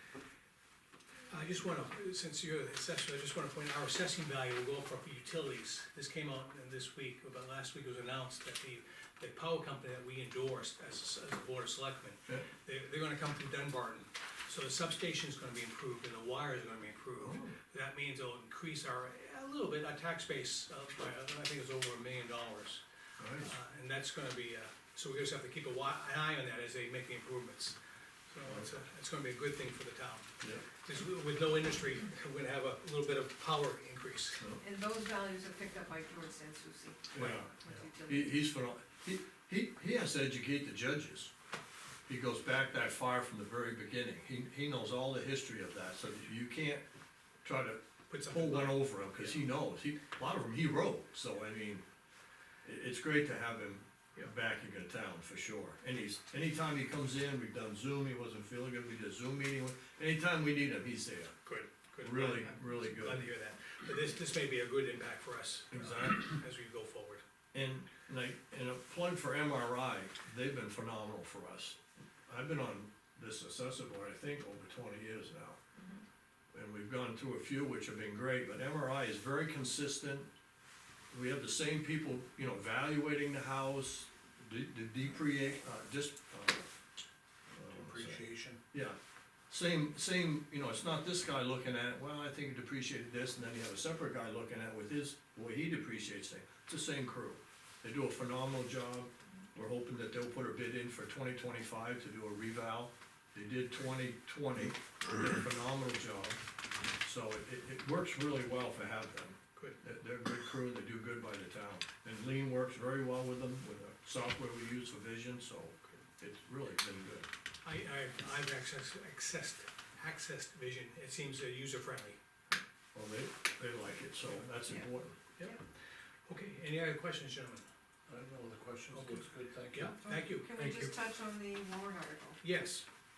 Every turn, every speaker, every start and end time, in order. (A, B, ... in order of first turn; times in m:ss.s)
0:01.3-0:22.8 A
0:17.2-0:17.6 B
0:23.2-0:23.5 B
0:23.4-0:27.8 A
0:28.3-0:30.3 A
0:30.4-0:30.6 B
0:30.8-0:34.4 A
0:34.6-0:38.4 C
0:37.1-0:41.3 B
0:37.1-0:37.4 A
0:42.1-0:46.8 B
0:47.4-0:51.8 B
0:48.1-0:49.4 A
0:52.6-1:01.4 B
1:01.4-1:07.2 A
1:02.0-1:03.3 B
1:05.7-1:06.3 B
1:07.5-1:15.6 B
1:15.8-1:16.0 C
1:16.5-1:20.3 B
1:21.1-1:26.6 B
1:27.5-1:28.6 D
1:27.6-1:29.0 B
1:29.5-1:46.4 B
1:47.0-1:57.3 B
1:57.6-2:02.2 A
2:02.9-2:05.2 B
2:05.4-2:05.6 A
2:06.3-2:07.6 A
2:08.1-2:10.0 D
2:08.9-2:10.9 A
2:10.0-2:12.4 C
2:10.6-2:10.9 B
2:12.4-2:12.8 A